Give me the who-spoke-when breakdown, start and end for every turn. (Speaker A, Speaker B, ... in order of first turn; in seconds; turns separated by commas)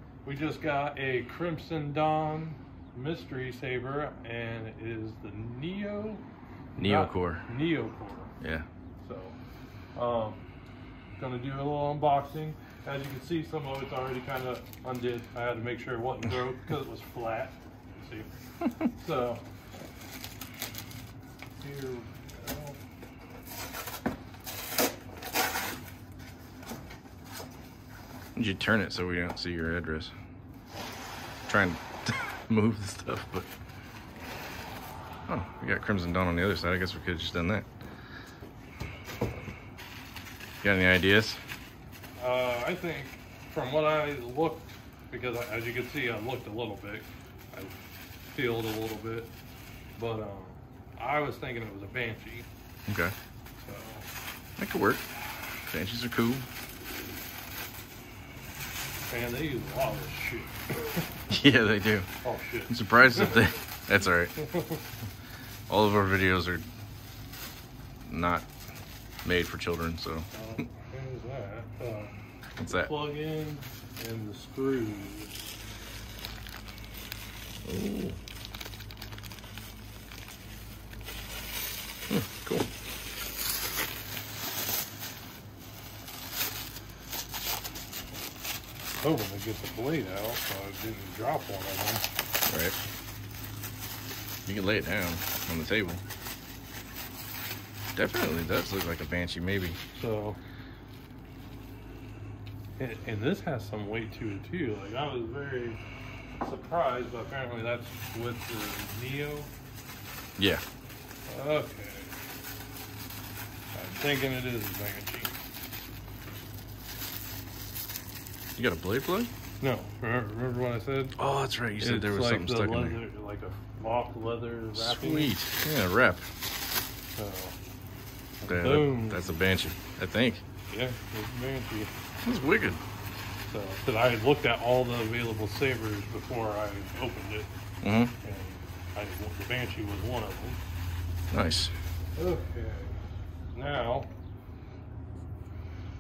Speaker A: 0.2-6.2, Speaker B: 6.8-7.5, Speaker A: 6.8-8.3, Speaker B: 8.4-8.7, Speaker A: 9.0-9.4, Speaker A: 9.9-10.4, Speaker A: 11.2-19.4, Speaker A: 21.6-22.8, Speaker B: 28.4-30.1, Speaker B: 31.4-33.5, Speaker B: 35.3-37.7, Speaker B: 40.6-41.4, Speaker A: 42.2-47.8, Speaker A: 48.3-49.3, Speaker A: 50.0-52.5, Speaker B: 52.9-53.1, Speaker A: 53.6-54.0, Speaker B: 54.6-55.0, Speaker B: 55.7-56.5, Speaker A: 59.1-61.1, Speaker B: 61.3-62.1, Speaker A: 62.2-63.4, Speaker B: 62.7-64.4, Speaker A: 64.4-64.8, Speaker B: 65.7-66.7, Speaker B: 68.0-68.5, Speaker B: 69.2-70.3, Speaker A: 70.3-72.1, Speaker B: 72.6-72.9, Speaker A: 72.6-75.4, Speaker B: 77.6-78.2, Speaker B: 82.1-82.7, Speaker A: 89.0-92.0, Speaker B: 92.5-92.8, Speaker B: 94.5-96.0, Speaker B: 98.0-99.8, Speaker A: 99.9-100.4, Speaker A: 102.8-105.8, Speaker A: 106.4-109.5, Speaker B: 110.4-110.6, Speaker A: 111.3-112.1, Speaker A: 113.7-115.4, Speaker B: 118.6-119.3, Speaker A: 119.6-121.2, Speaker B: 121.2-123.0, Speaker A: 121.8-125.4, Speaker B: 124.7-126.3, Speaker A: 127.2-127.5, Speaker A: 128.4-129.3, Speaker B: 128.5-130.4, Speaker A: 130.7-131.9, Speaker B: 132.2-132.8, Speaker A: 133.5-137.5, Speaker B: 137.8-138.1, Speaker A: 138.2-140.6, Speaker B: 141.3-141.7, Speaker A: 142.2-143.0, Speaker A: 143.5-144.1